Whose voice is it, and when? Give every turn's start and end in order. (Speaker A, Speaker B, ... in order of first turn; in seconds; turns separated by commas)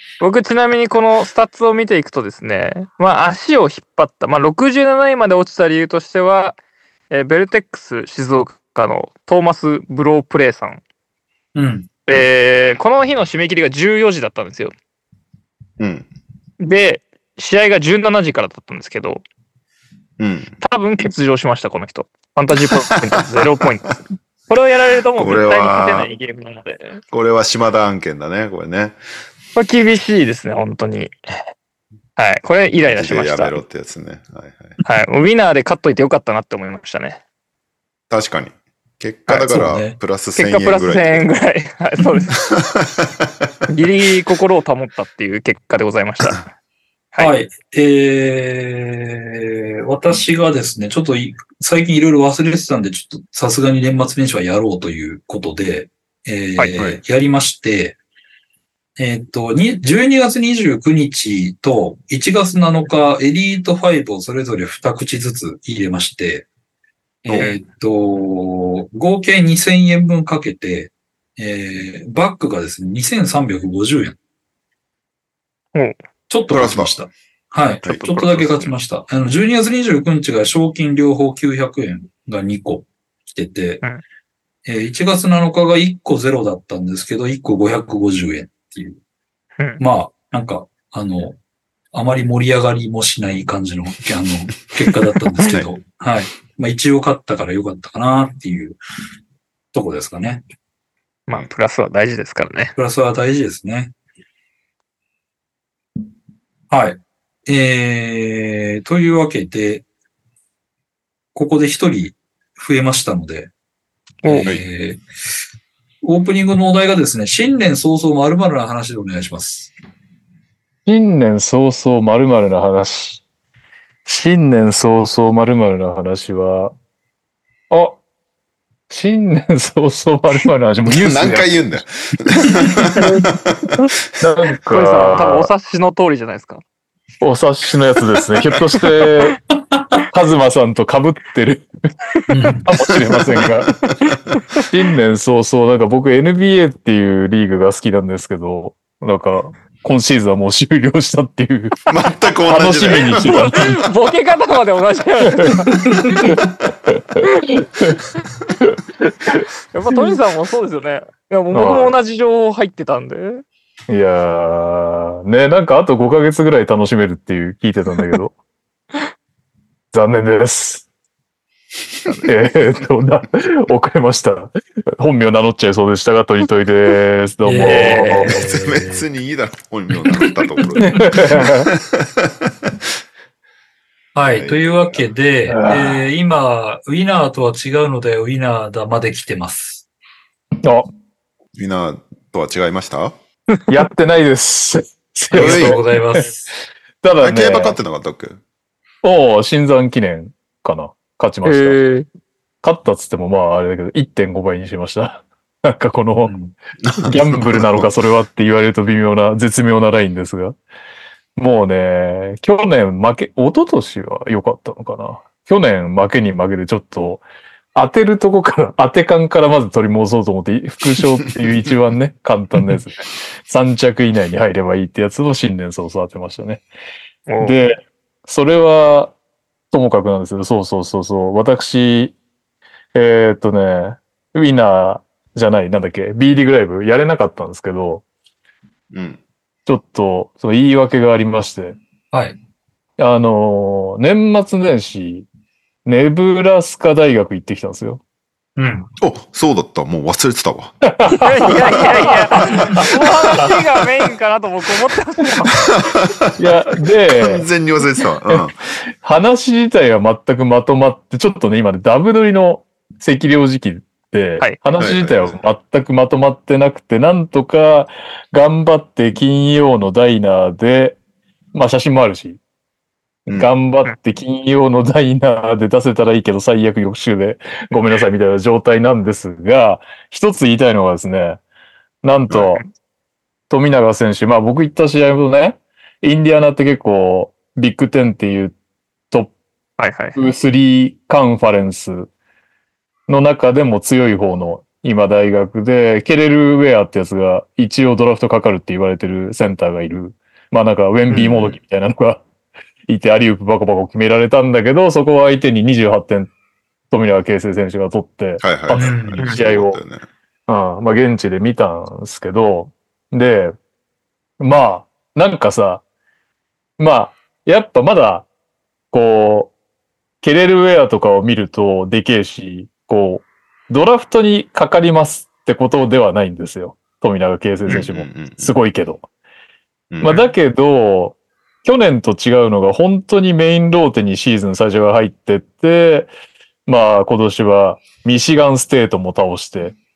Speaker A: 0.2-6.6, Speaker A: 7.1-10.8, Speaker B: 11.6-11.9, Speaker A: 12.1-14.7, Speaker C: 15.8-16.1, Speaker A: 16.6-19.2, Speaker C: 20.2-20.6, Speaker A: 20.6-27.0, Speaker C: 22.7-23.2, Speaker C: 25.1-26.1, Speaker C: 27.1-29.0, Speaker A: 29.6-31.1, Speaker A: 32.2-33.6, Speaker C: 32.9-34.8, Speaker A: 34.8-37.2, Speaker C: 38.1-41.3, Speaker B: 39.3-40.0, Speaker A: 40.4-42.4, Speaker C: 42.4-43.1, Speaker A: 43.7-46.5, Speaker B: 47.2-58.0, Speaker C: 56.8-57.0, Speaker B: 59.0-66.5, Speaker B: 67.2-74.2, Speaker B: 76.3-83.8, Speaker C: 76.5-77.0, Speaker C: 77.8-78.7, Speaker B: 84.7-89.0, Speaker A: 89.6-89.8, Speaker B: 89.8-91.4, Speaker B: 91.9-98.8, Speaker B: 99.7-100.4, Speaker A: 101.3-102.7, Speaker B: 102.8-103.9, Speaker B: 106.7-109.9, Speaker B: 111.3-113.5, Speaker A: 114.2-114.5, Speaker B: 114.2-115.0, Speaker B: 116.0-119.7, Speaker D: 120.9-123.2, Speaker D: 124.1-126.7, Speaker D: 127.7-128.0, Speaker D: 128.9-131.6, Speaker C: 130.9-133.9, Speaker D: 134.2-135.5, Speaker A: 134.7-136.6, Speaker D: 137.2-139.4, Speaker B: 139.8-140.0, Speaker D: 140.1-141.7, Speaker B: 142.3-142.7, Speaker D: 142.7-143.8, Speaker C: 143.3-143.9, Speaker A: 144.0-144.6, Speaker D: 144.6-151.9, Speaker C: 151.9-153.9, Speaker D: 152.4-153.8, Speaker A: 153.1-155.9, Speaker D: 155.4-158.0, Speaker B: 155.9-156.3, Speaker D: 158.6-160.1, Speaker A: 159.7-163.4, Speaker D: 161.5-162.0, Speaker D: 163.9-168.3, Speaker D: 169.9-170.9, Speaker D: 172.2-178.4, Speaker B: 177.4-179.0, Speaker A: 177.8-178.3, Speaker C: 178.3-182.7, Speaker D: 180.8-181.7, Speaker B: 184.2-189.9, Speaker C: 184.4-185.1, Speaker D: 185.5-186.0, Speaker C: 191.6-193.1, Speaker D: 193.7-195.8, Speaker B: 195.3-196.5, Speaker C: 195.3-195.8, Speaker D: 197.0-197.8, Speaker C: 197.2-198.4, Speaker D: 199.0-201.8, Speaker A: 201.4-202.1, Speaker D: 202.6-206.3, Speaker B: 206.2-206.6, Speaker C: 206.8-207.9, Speaker D: 207.0-210.6, Speaker D: 211.4-217.2, Speaker D: 217.8-226.7, Speaker A: 227.3-227.6, Speaker D: 227.4-229.2, Speaker D: 229.7-232.1, Speaker D: 232.9-238.0, Speaker C: 238.9-239.2, Speaker D: 239.7-241.8, Speaker B: 242.1-242.4, Speaker D: 243.0-245.3, Speaker D: 245.8-248.0, Speaker B: 248.6-248.9, Speaker C: 249.0-253.5, Speaker D: 250.9-252.8, Speaker A: 251.1-255.7, Speaker C: 255.8-256.3, Speaker D: 256.4-257.5, Speaker C: 257.1-258.6, Speaker D: 259.0-271.0, Speaker C: 264.8-265.4, Speaker D: 271.5-272.4, Speaker D: 273.3-281.4, Speaker D: 282.0-282.6, Speaker D: 283.5-288.6, Speaker A: 289.8-290.2, Speaker D: 290.2-292.1, Speaker D: 293.1-302.3, Speaker C: 301.1-301.6, Speaker D: 302.9-306.3, Speaker D: 306.9-309.8, Speaker C: 308.4-310.1, Speaker B: 308.8-309.3, Speaker D: 310.5-313.6, Speaker D: 314.4-315.8, Speaker D: 316.8-318.3, Speaker D: 318.9-319.5, Speaker D: 320.2-329.1, Speaker C: 327.7-328.6, Speaker C: 329.9-330.2, Speaker D: 330.0-336.1, Speaker D: 336.7-339.8